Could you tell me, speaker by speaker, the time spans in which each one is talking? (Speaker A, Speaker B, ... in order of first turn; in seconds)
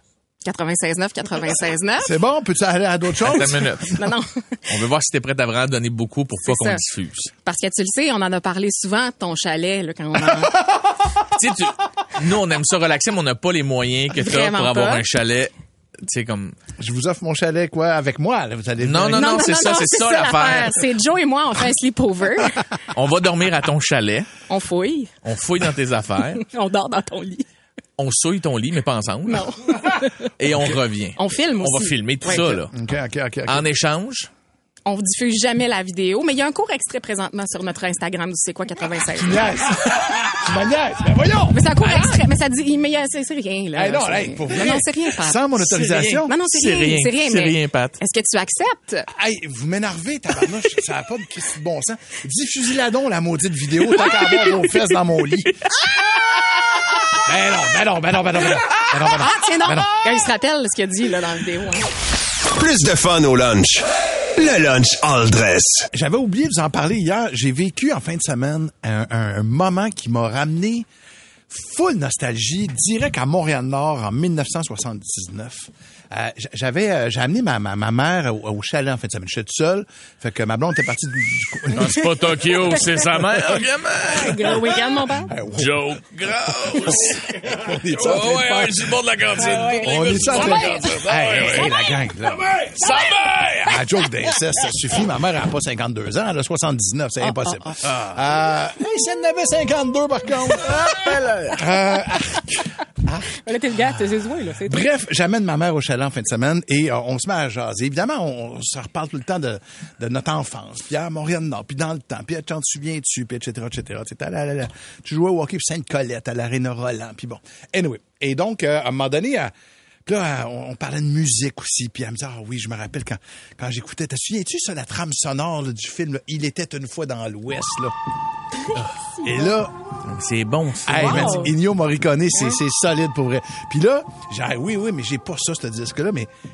Speaker A: 0.4-2.1, 3.9-4.7, 6.4-6.8, 7.4-10.6, 14.1-15.0, 19.1-22.6, 24.5-25.1, 26.4-27.4, 29.3-30.3, 31.2-32.5, 34.9-39.4, 41.5-45.5, 46.2-49.1, 59.1-61.9, 84.1-85.3, 89.4-90.8, 103.4-104.8, 131.1-131.5
Speaker B: 2.0-3.9, 16.8-19.7, 32.3-33.6, 39.1-41.7, 43.7-46.3, 49.1-55.5, 57.2-60.2, 65.9-70.9, 71.5-82.7, 85.2-85.9, 87.4-92.7, 93.7-103.3, 104.6-119.5, 120.0-127.9, 129.2-129.7, 130.8-136.3
Speaker C: 3.2-4.0, 4.7-7.3, 11.3-15.5, 16.0-16.6, 18.8-20.8, 22.9-24.3, 25.2-26.4, 28.0-29.7, 30.4-32.7, 33.5-34.3, 45.6-48.0, 81.7-84.8, 85.5-91.8, 92.4-94.0, 100.8-101.6, 130.1-131.5
Speaker D: 62.5-65.9